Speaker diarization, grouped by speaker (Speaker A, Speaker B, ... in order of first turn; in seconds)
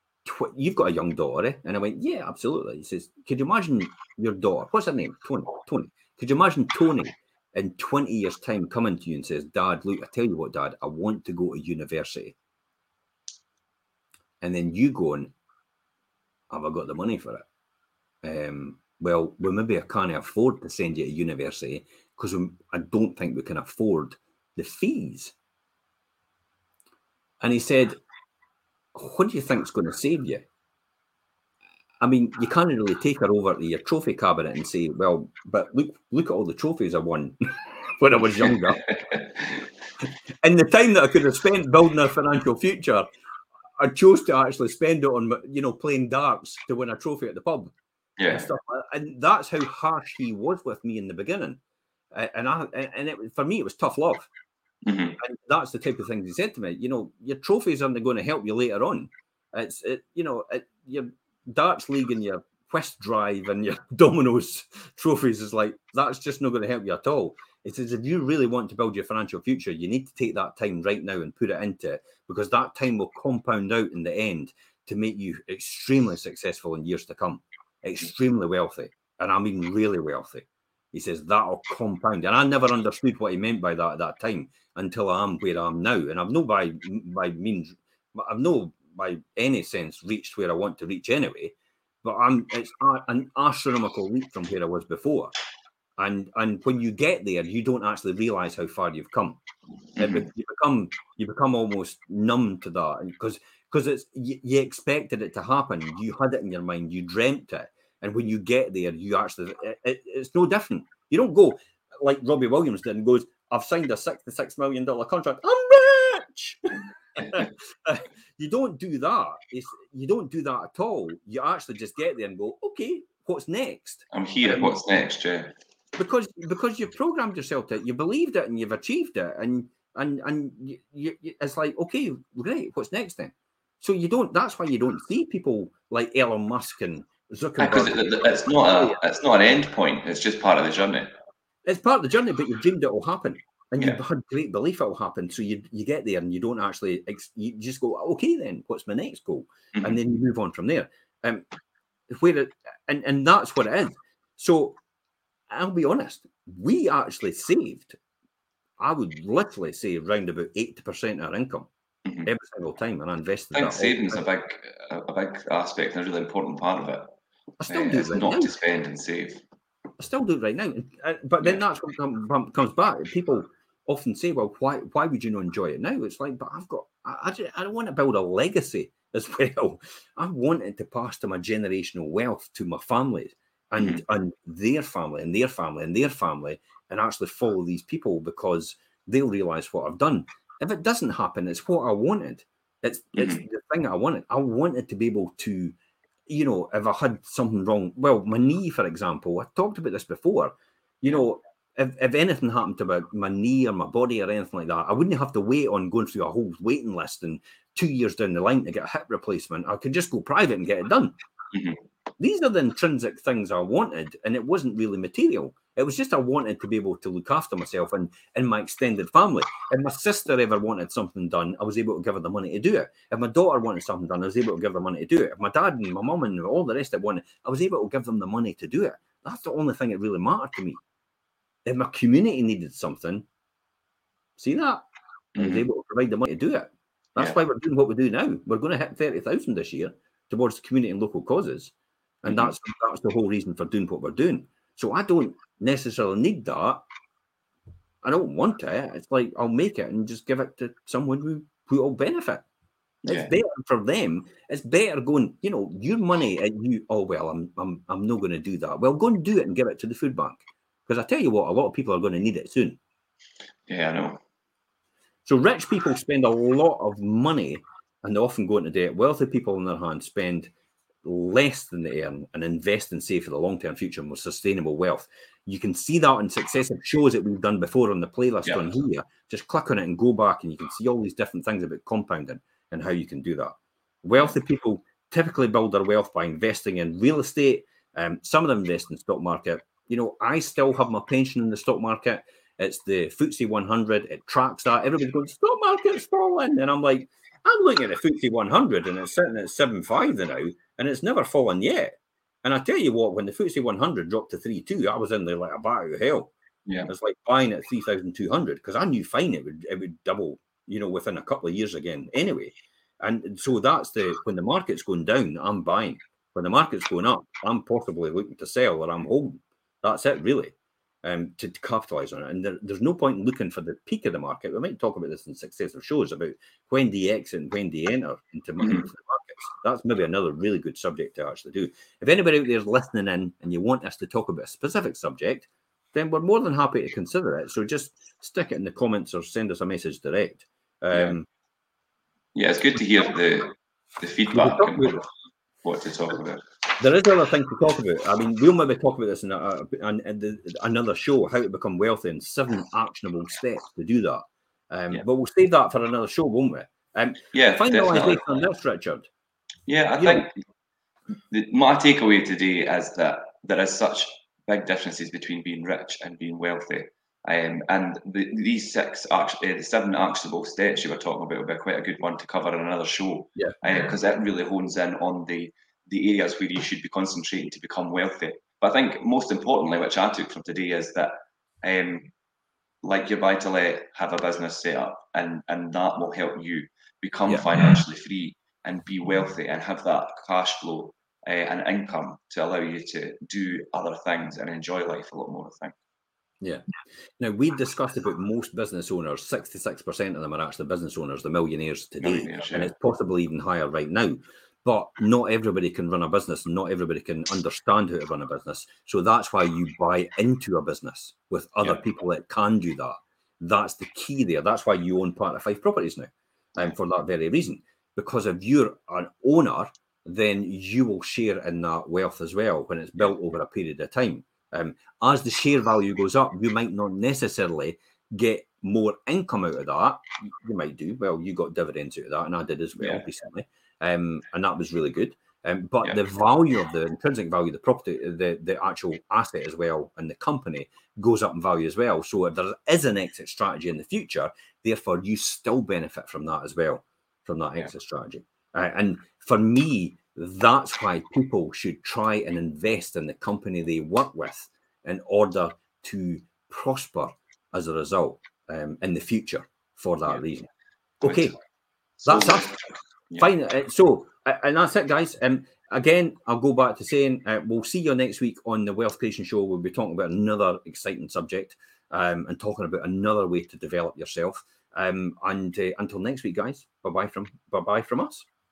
Speaker A: 0.2-12.3, 14.4-15.3, 16.5-17.4, 18.2-25.3, 27.4-28.0, 28.9-30.4, 32.0-38.8, 40.4-43.0, 43.8-47.7, 48.3-51.6, 52.1-54.3, 55.2-95.3, 96.0-99.4, 100.0-124.8, 126.0-139.0, 141.7-151.4, 152.1-154.8, 155.5-158.0, 158.8-161.7, 162.2-164.2, 167.6-168.5, 170.0-195.8, 196.3-211.2, 212.2-230.8, 231.6-233.2, 234.4-234.8, 235.4-246.8, 248.0-252.4, 253.1-262.8, 265.2-270.5, 271.0-306.3, 306.9-341.2, 344.3-345.0, 346.8-359.1, 360.0-360.3, 373.4-373.9, 396.4-396.6, 397.2-460.5, 461.0-461.3, 462.0-462.5, 463.2-478.3
Speaker B: 38.4-39.6, 48.2-48.5, 54.8-55.2, 100.0-100.3, 124.1-125.5, 137.6-141.1, 149.7-150.0, 162.0-162.3, 163.5-167.2, 167.7-169.4, 183.8-184.0, 193.1-193.4, 211.5-211.8, 235.3-235.7, 242.2-242.5, 253.0-253.3, 263.7-264.2, 328.6-328.9, 340.9-341.1, 342.3-345.0, 345.6-346.4, 357.3-358.4, 359.7-360.4, 361.3-382.1, 382.8-395.7, 402.0-402.7, 432.8-433.0, 461.0-461.4, 462.0-463.3